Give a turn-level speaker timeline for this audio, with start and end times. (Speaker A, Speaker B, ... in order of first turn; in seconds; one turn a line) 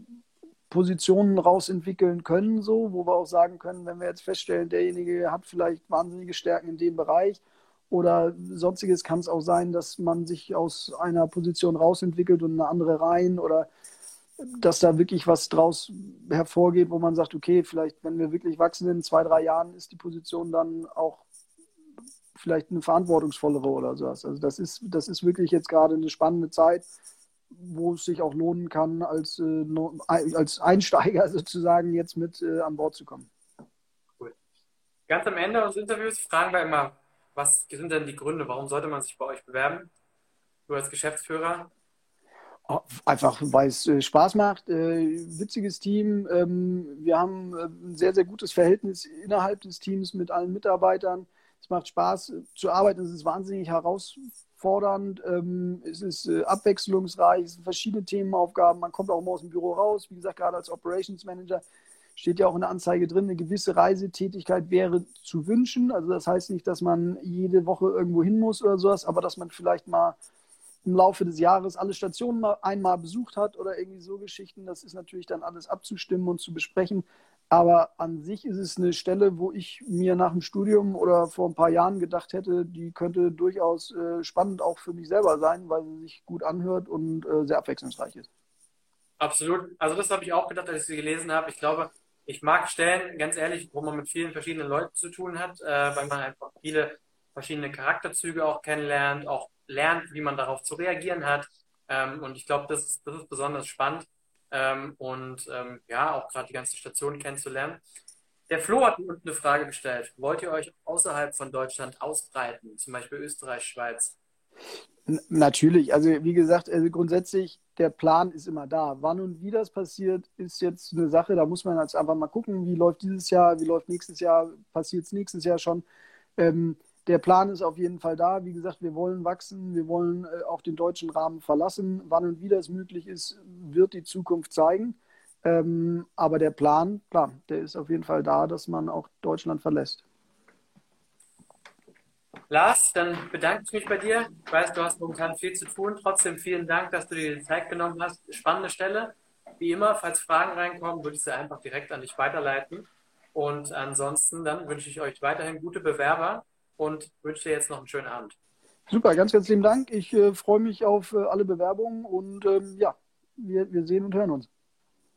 Speaker A: 0.7-13.7
Speaker A: 14.4-21.2
Speaker A: 22.4-26.9
Speaker A: 27.5-33.3
Speaker B: 35.1-39.9
Speaker B: 40.7-41.7
Speaker A: 42.7-61.6
Speaker A: 62.2-70.2
Speaker A: 70.8-88.3
Speaker B: 89.2-107.8
Speaker B: 108.5-114.2
Speaker A: 115.1-125.8
Speaker A: 126.4-140.0
Speaker B: 142.5-158.4
Speaker A: 158.9-164.5